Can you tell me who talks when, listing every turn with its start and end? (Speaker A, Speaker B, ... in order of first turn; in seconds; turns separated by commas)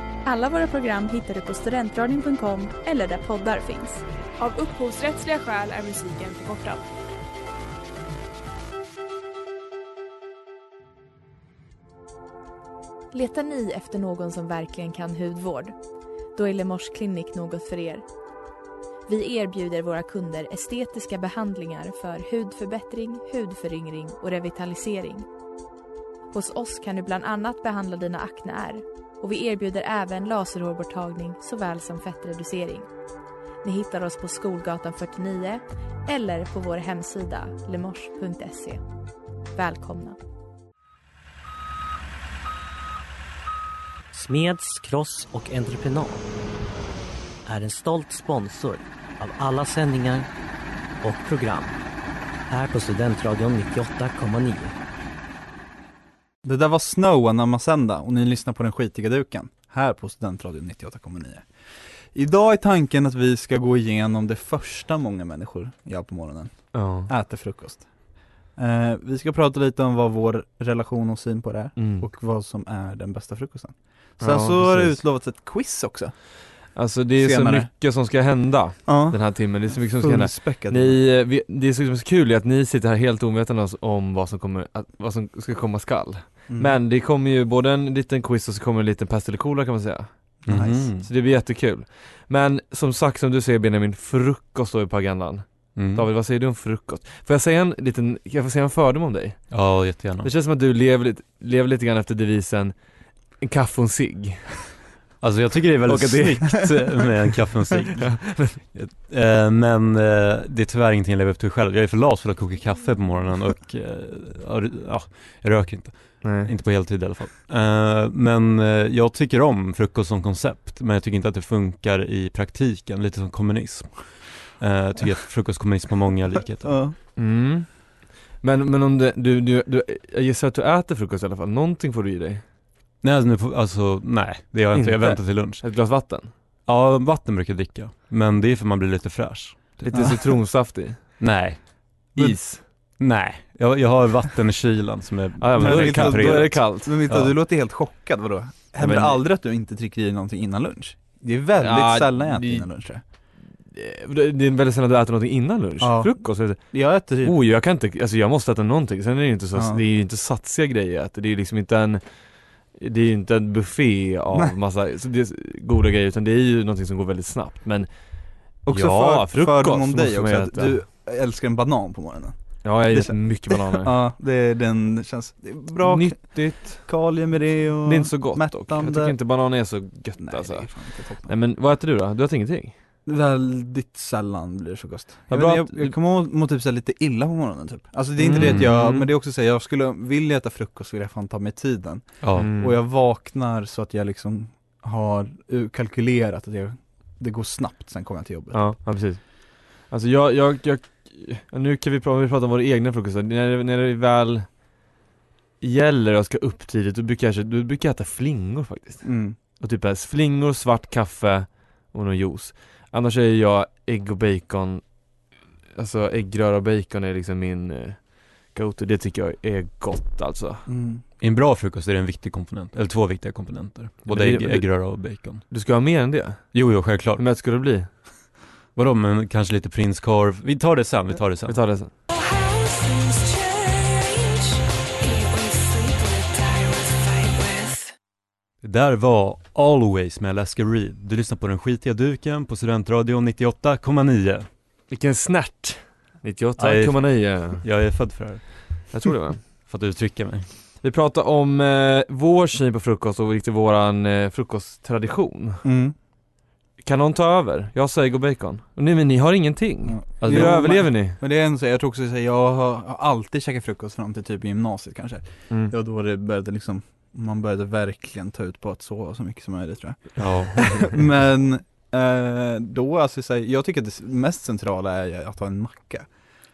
Speaker A: 0.3-4.0, Speaker B: 4.4-6.9, Speaker A: 13.1-15.7, Speaker A: 16.4-18.0, Speaker A: 19.1-25.3, Speaker A: 26.3-32.9, Speaker A: 33.6-38.8, Speaker A: 39.5-40.2, Speaker C: 44.1-46.3, Speaker C: 47.5-50.3, Speaker C: 51.0-51.8, Speaker C: 52.5-54.8, Speaker D: 56.4-61.5, Speaker D: 62.0-67.9, Speaker E: 66.7-67.1, Speaker D: 68.6-76.2, Speaker E: 71.8-72.1, Speaker E: 74.2-75.0, Speaker E: 76.8-90.1, Speaker D: 77.2-77.7, Speaker D: 78.9-81.0, Speaker D: 86.5-86.8, Speaker F: 90.5-91.1, Speaker D: 90.5-90.9, Speaker E: 91.0-99.5, Speaker F: 95.8-96.1, Speaker F: 99.5-100.3, Speaker E: 100.2-102.7, Speaker E: 103.4-104.6, Speaker F: 105.2-126.8, Speaker E: 105.9-106.8, Speaker E: 108.0-108.6, Speaker E: 116.2-116.5, Speaker D: 126.6-127.0, Speaker E: 127.2-132.4, Speaker F: 133.0-135.7, Speaker E: 134.7-136.3, Speaker F: 136.7-140.2, Speaker E: 139.8-141.0, Speaker D: 139.9-140.2, Speaker F: 141.2-141.6, Speaker E: 142.2-142.6, Speaker F: 143.0-147.3, Speaker E: 145.4-146.9, Speaker D: 145.6-153.0, Speaker E: 148.8-149.2, Speaker E: 151.6-152.7, Speaker E: 153.7-156.6, Speaker D: 155.8-157.4, Speaker E: 157.2-162.0, Speaker D: 159.6-159.8, Speaker E: 162.8-167.9, Speaker D: 168.7-172.4, Speaker E: 168.7-170.8, Speaker E: 172.6-173.9, Speaker D: 172.9-179.2, Speaker E: 175.8-176.8, Speaker E: 177.8-180.7, Speaker D: 180.2-181.3, Speaker E: 181.3-182.8, Speaker D: 183.1-198.7, Speaker E: 185.3-186.0, Speaker E: 188.2-189.1, Speaker F: 188.4-188.7, Speaker F: 192.2-192.5, Speaker E: 192.4-192.8, Speaker E: 198.5-204.5, Speaker E: 205.6-209.1, Speaker D: 209.0-209.4, Speaker E: 209.6-214.8, Speaker E: 215.8-218.0, Speaker E: 218.5-220.7, Speaker D: 220.7-221.0, Speaker F: 221.2-225.5, Speaker E: 224.1-227.9, Speaker F: 226.5-227.2, Speaker F: 228.8-231.6, Speaker E: 231.5-231.9, Speaker A: 232.2-234.4, Speaker A: 235.0-237.8, Speaker F: 238.6-244.5, Speaker E: 244.9-247.7, Speaker F: 246.6-248.9, Speaker E: 248.9-249.4, Speaker F: 249.4-250.5, Speaker E: 250.8-255.6, Speaker D: 255.6-256.0, Speaker E: 256.8-261.2, Speaker D: 259.9-276.1, Speaker F: 260.2-260.7, Speaker F: 270.2-271.0